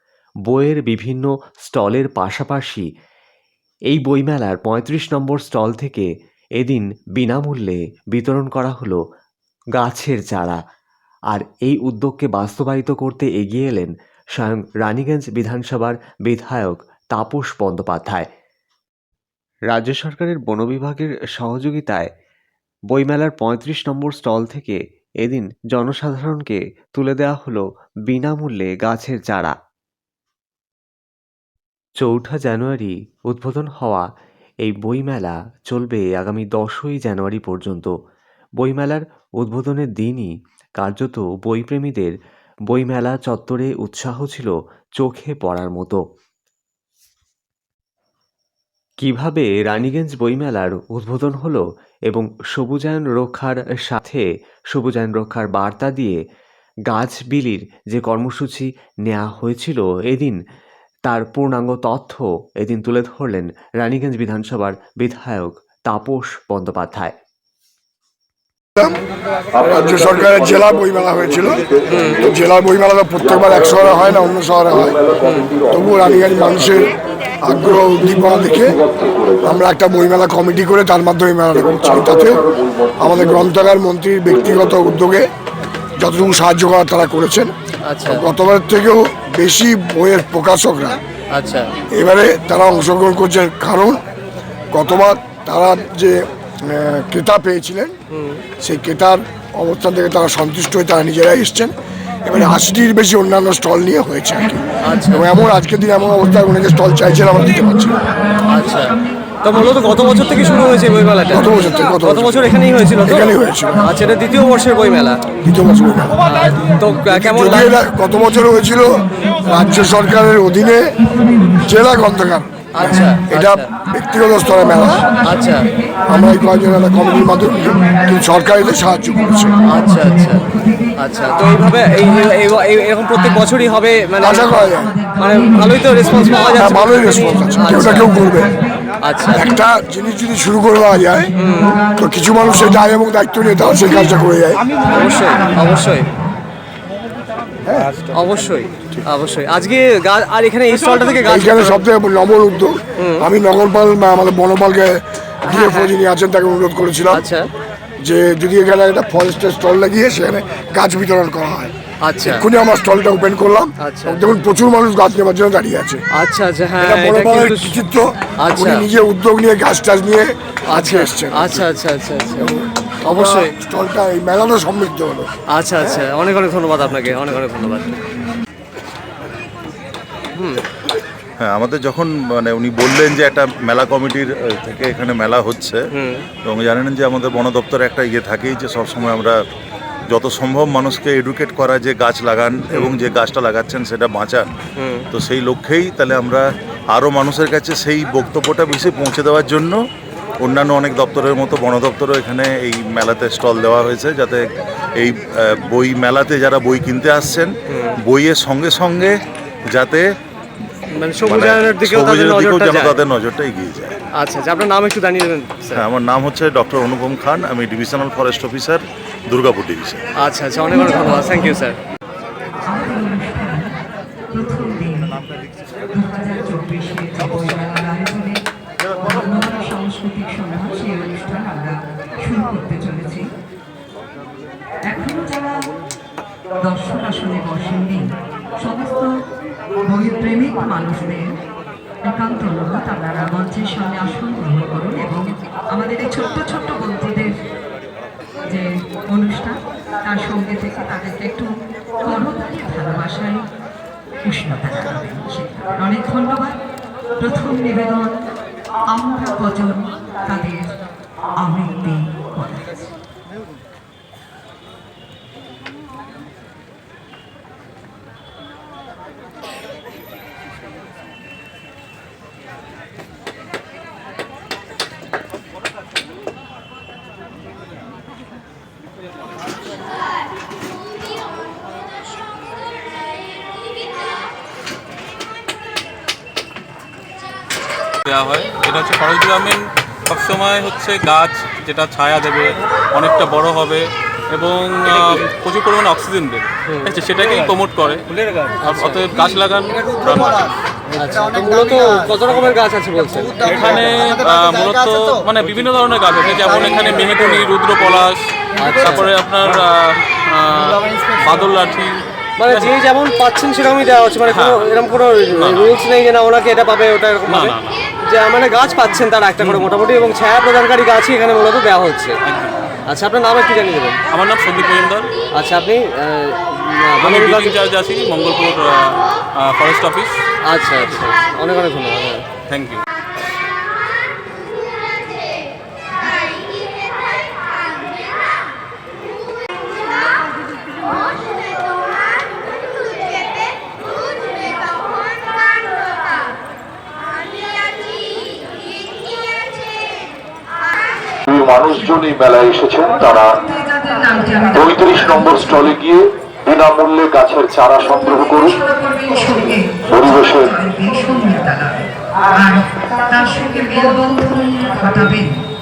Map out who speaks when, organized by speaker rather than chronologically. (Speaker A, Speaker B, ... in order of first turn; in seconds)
Speaker A: 0.5-2.9, 3.9-9.0, 9.8-10.6, 11.3-18.3, 19.7-22.1, 22.9-29.6, 32.0-34.1, 34.6-38.0, 38.6-42.1, 42.7-46.0, 49.0-56.2, 56.9-60.4, 61.1-67.2
Speaker B: 69.6-75.0, 75.7-78.8, 79.4-82.5, 83.0-85.3, 86.0-87.5, 88.1-91.0, 91.9-94.0, 94.7-98.0, 98.6-101.7, 102.2-108.0, 111.3-112.5, 113.0-113.9, 115.4-116.2, 117.1-121.0, 121.7-125.2, 126.1-129.7, 134.2-135.0, 136.5-138.6, 139.3-141.3, 142.0-144.8, 147.7-147.9, 151.3-157.2, 158.0-166.0, 166.8-171.7, 172.4-175.3
Speaker C: 71.9-72.3, 75.2-75.5, 87.9-88.2, 91.3-91.7, 98.1-98.4, 104.8-105.3, 108.5-111.4, 112.0-115.2, 116.2-117.8, 122.8-123.7, 125.2-125.7, 129.7-130.4, 131.0-138.1, 139.1-139.4, 141.4-141.8, 144.9-146.1, 148.1-151.8, 153.0-153.3, 155.5-155.9, 157.1-157.5, 162.1-162.4, 163.8-164.2, 166.2-167.8, 168.4-168.9, 170.7-172.5, 173.1-173.5, 175.6-178.0, 180.4-180.6, 185.9-186.2, 192.7-193.0, 194.8-195.1, 210.9-213.0, 214.2-215.8, 220.2-221.8, 296.7-296.9, 298.7-299.0, 300.9-303.4, 308.6-309.1, 312.4-317.5, 318.0-322.2, 322.9-324.0, 325.4-327.6, 330.4-332.3
Speaker D: 78.8-79.4, 351.3-353.4, 354.6-358.6, 360.0-360.5
Speaker E: 108.1-108.6, 110.2-111.2, 119.2-119.5, 121.1-122.0, 124.8-127.9, 129.7-130.9, 135.0-136.1, 138.3-138.6, 141.4-142.0, 144.9-146.3, 220.7-221.6, 222.7-223.8, 224.3-225.2, 225.9-228.4, 229.0-233.3, 234.9-235.7, 236.6-239.2, 239.8-241.4, 242.0-247.4, 248.4-253.4, 254.2-256.6, 257.2-258.2, 258.9-260.8, 261.4-262.8, 353.2-355.7, 358.5-365.5
Speaker F: 181.4-185.9, 186.4-189.4, 190.1-194.5, 195.1-199.8, 200.4-207.5, 208.1-209.2, 209.7-210.1, 211.2-214.0, 215.8-220.0
Speaker G: 288.1-300.5, 303.4-312.7, 314.3-314.7, 315.4-315.9, 317.3-317.9, 319.4-319.6, 322.2-322.6, 324.1-325.1, 327.0-330.2, 330.8-331.1, 332.5-332.8